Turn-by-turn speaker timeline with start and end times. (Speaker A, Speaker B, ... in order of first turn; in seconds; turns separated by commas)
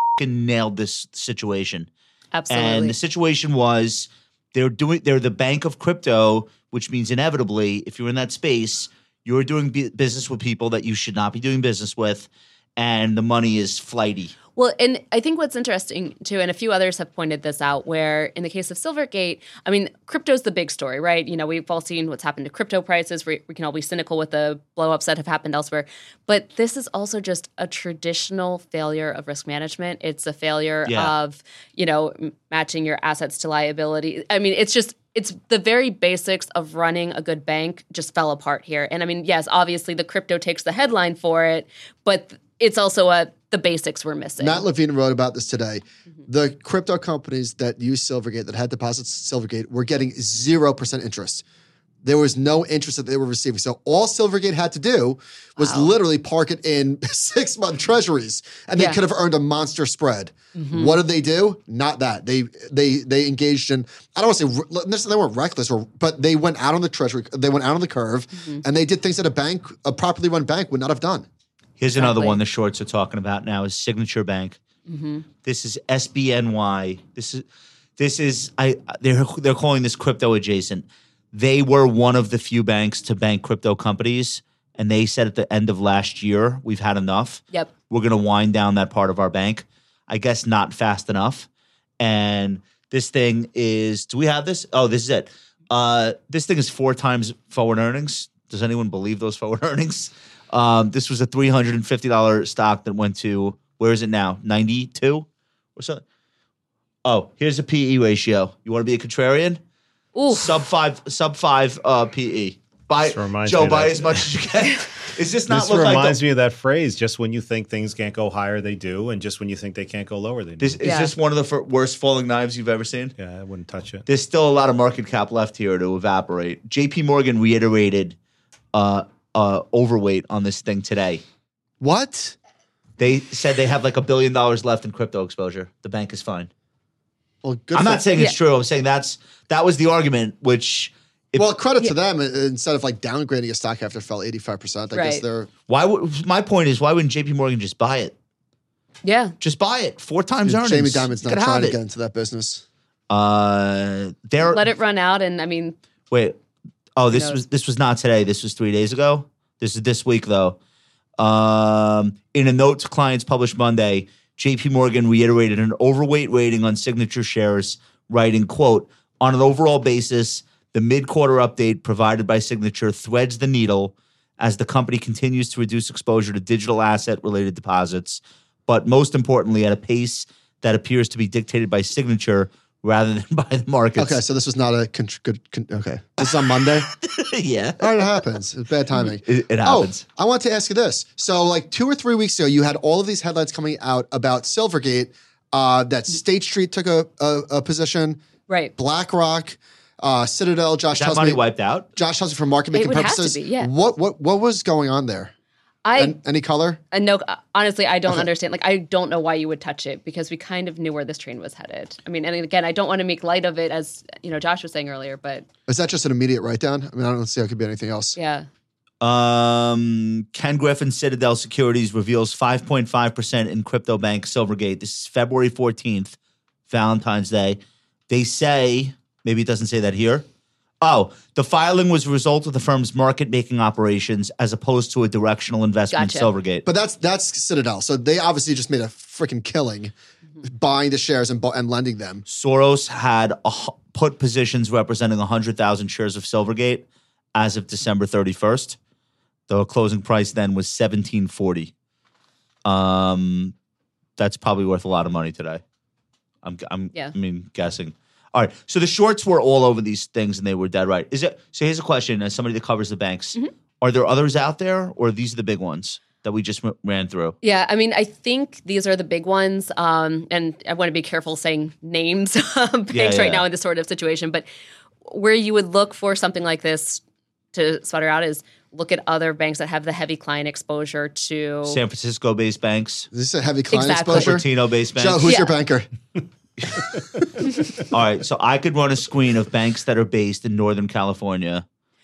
Speaker A: 0.2-1.9, Speaker B: 2.3-2.9, Speaker A: 2.5-14.3, Speaker B: 14.6-44.6, Speaker A: 30.9-31.1, Speaker C: 44.4-51.4, Speaker C: 52.0-71.2, Speaker B: 55.6-55.9, Speaker B: 60.5-61.0, Speaker B: 68.4-68.6, Speaker A: 71.8-74.6, Speaker B: 72.0-72.4, Speaker B: 74.9-75.2, Speaker A: 75.4-77.4, Speaker A: 78.0-91.5, Speaker A: 92.0-106.0, Speaker A: 107.0-109.6, Speaker B: 110.1-110.5, Speaker A: 110.3-116.2, Speaker D: 113.0-114.3, Speaker D: 115.5-120.8, Speaker A: 120.6-123.1, Speaker B: 120.8-121.1, Speaker D: 123.2-124.0, Speaker A: 124.0-128.2, Speaker A: 128.7-131.2, Speaker C: 131.8-132.3, Speaker A: 133.0-136.5, Speaker C: 137.4-138.1, Speaker A: 137.7-141.5, Speaker C: 141.3-145.5, Speaker B: 144.9-145.2, Speaker A: 145.7-148.1, Speaker B: 149.0-149.3, Speaker A: 149.4-151.8, Speaker C: 150.4-152.6, Speaker A: 153.1-154.6, Speaker B: 154.4-155.8, Speaker A: 156.1-156.4, Speaker A: 157.0-160.6, Speaker B: 157.1-157.4, Speaker A: 161.2-184.2, Speaker C: 184.0-186.9, Speaker A: 186.2-188.2, Speaker C: 187.8-198.2, Speaker A: 189.2-190.0, Speaker B: 198.5-198.7, Speaker C: 198.8-201.4, Speaker A: 200.9-201.9, Speaker C: 201.9-205.3, Speaker B: 202.7-203.7, Speaker B: 205.8-206.2, Speaker C: 205.9-206.8, Speaker B: 206.9-215.4, Speaker C: 215.7-218.2, Speaker B: 218.2-218.5, Speaker A: 219.0-226.2, Speaker A: 226.7-230.2, Speaker A: 230.8-236.6, Speaker B: 235.9-236.3, Speaker C: 236.6-242.2, Speaker A: 242.2-248.8, Speaker A: 249.5-251.7, Speaker A: 252.6-253.5, Speaker A: 254.2-255.6, Speaker A: 256.4-267.3, Speaker B: 267.4-274.4, Speaker A: 272.9-273.4, Speaker B: 275.1-277.0, Speaker B: 277.5-281.8, Speaker A: 281.6-283.1, Speaker C: 283.1-285.9, Speaker B: 283.7-284.4, Speaker A: 284.1-285.3, Speaker B: 285.2-285.5, Speaker A: 287.9-291.6